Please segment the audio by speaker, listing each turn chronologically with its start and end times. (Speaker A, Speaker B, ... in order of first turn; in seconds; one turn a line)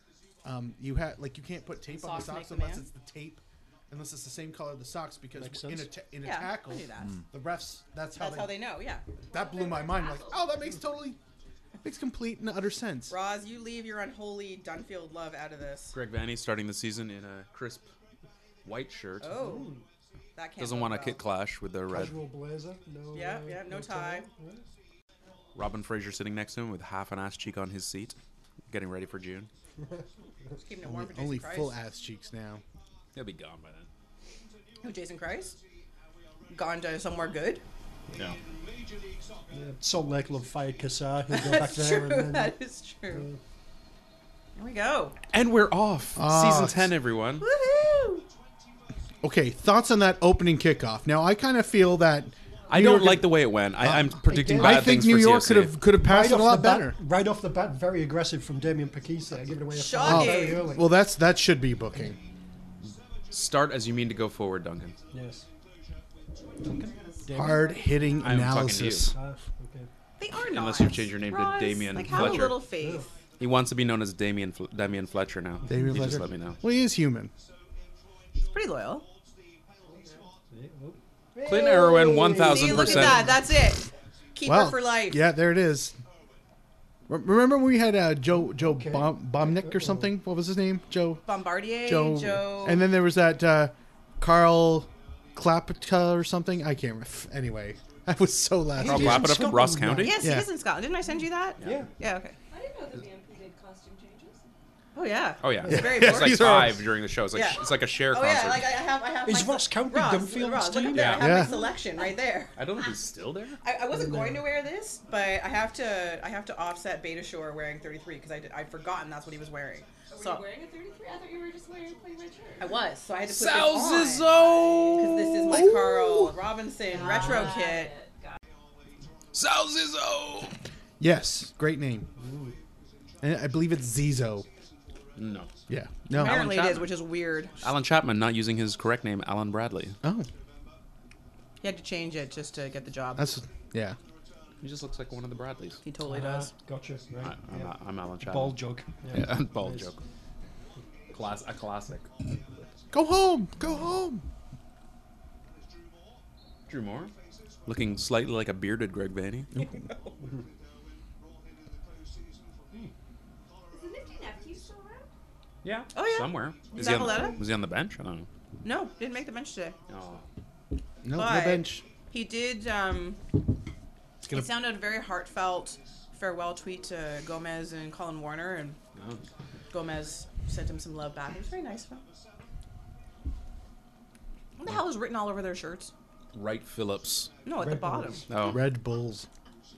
Speaker A: 0.4-8.6
Speaker B: 1.9-2.8
Speaker C: 5.3-5.9
Speaker B: 6.2-7.2
Speaker B: 8.2-9.1
Speaker D: 9.2-10.5
Speaker A: 9.3-11.2
Speaker A: 11.8-13.1
Speaker B: 13.1-16.0
Speaker E: 15.9-17.9
Speaker E: 18.6-19.5
Speaker B: 19.2-19.8
Speaker C: 19.3-19.8
Speaker B: 20.3-21.2
Speaker E: 20.6-22.2
Speaker C: 21.9-24.6
Speaker B: 23.1-24.2
Speaker E: 25.5-28.1
Speaker E: 28.7-29.5
Speaker B: 30.6-31.7
Speaker A: 30.8-32.6
Speaker E: 33.1-33.9
Speaker B: 34.8-35.6
Speaker B: 36.5-37.6
Speaker C: 39.5-42.5
Speaker B: 41.3-43.2
Speaker C: 43.1-43.4
Speaker B: 44.5-45.1
Speaker E: 45.3-47.5
Speaker A: 46.1-46.9
Speaker B: 47.4-48.2
Speaker A: 49.2-57.0
Speaker E: 52.7-55.8
Speaker C: 54.2-55.0
Speaker C: 56.0-60.9
Speaker B: 59.7-60.7
Speaker A: 60.0-62.2
Speaker E: 63.3-65.0
Speaker C: 65.1-65.5
Speaker D: 66.6-68.0
Speaker C: 66.7-67.8
Speaker A: 67.3-69.2
Speaker E: 68.2-69.1
Speaker C: 69.1-69.9
Speaker B: 70.2-73.1
Speaker E: 70.3-72.7
Speaker C: 72.0-73.1
Speaker E: 73.4-76.6
Speaker A: 75.7-77.3
Speaker B: 78.5-79.0
Speaker C: 79.9-83.4
Speaker E: 81.4-83.3
Speaker B: 82.3-85.2
Speaker A: 84.4-86.0
Speaker A: 87.1-99.5
Speaker C: 88.5-90.1
Speaker B: 91.2-92.8
Speaker C: 98.8-100.2
Speaker E: 98.8-100.2
Speaker B: 100.0-102.3
Speaker A: 100.2-100.5
Speaker C: 101.6-101.9
Speaker D: 102.5-104.4
Speaker B: 104.9-106.8
Speaker E: 105.4-108.8
Speaker A: 105.7-106.9
Speaker B: 107.3-112.5
Speaker C: 109.2-111.4
Speaker E: 110.9-111.4
Speaker A: 111.2-111.6
Speaker D: 111.5-112.0
Speaker E: 112.5-113.6
Speaker B: 113.6-120.4
Speaker C: 113.9-114.5
Speaker D: 120.1-122.8
Speaker B: 122.6-127.9
Speaker E: 123.2-125.6
Speaker A: 125.5-126.4
Speaker D: 126.9-128.4
Speaker E: 129.3-130.6
Speaker A: 131.0-132.1
Speaker C: 132.2-132.6
Speaker A: 133.2-134.5
Speaker E: 135.2-135.5
Speaker A: 135.7-136.5
Speaker E: 136.1-137.0
Speaker B: 136.1-137.5
Speaker E: 137.6-140.0
Speaker A: 140.0-140.3
Speaker B: 141.6-143.3
Speaker A: 143.2-144.0
Speaker E: 144.6-145.8
Speaker B: 145.8-146.5
Speaker C: 146.0-149.9
Speaker E: 147.2-150.0
Speaker E: 151.1-152.1
Speaker A: 152.9-154.2
Speaker E: 156.7-157.1
Speaker E: 157.7-159.5
Speaker D: 163.7-165.1
Speaker E: 165.6-168.3
Speaker B: 165.9-167.4
Speaker D: 166.7-167.4
Speaker B: 168.6-169.8
Speaker E: 169.9-170.2
Speaker A: 171.0-171.8
Speaker B: 171.1-173.2
Speaker B: 174.3-178.8
Speaker E: 178.9-179.2
Speaker B: 179.7-182.0
Speaker B: 184.6-185.9
Speaker E: 186.3-187.3
Speaker B: 187.4-188.3
Speaker C: 187.6-188.3
Speaker E: 188.3-188.6
Speaker A: 188.4-189.3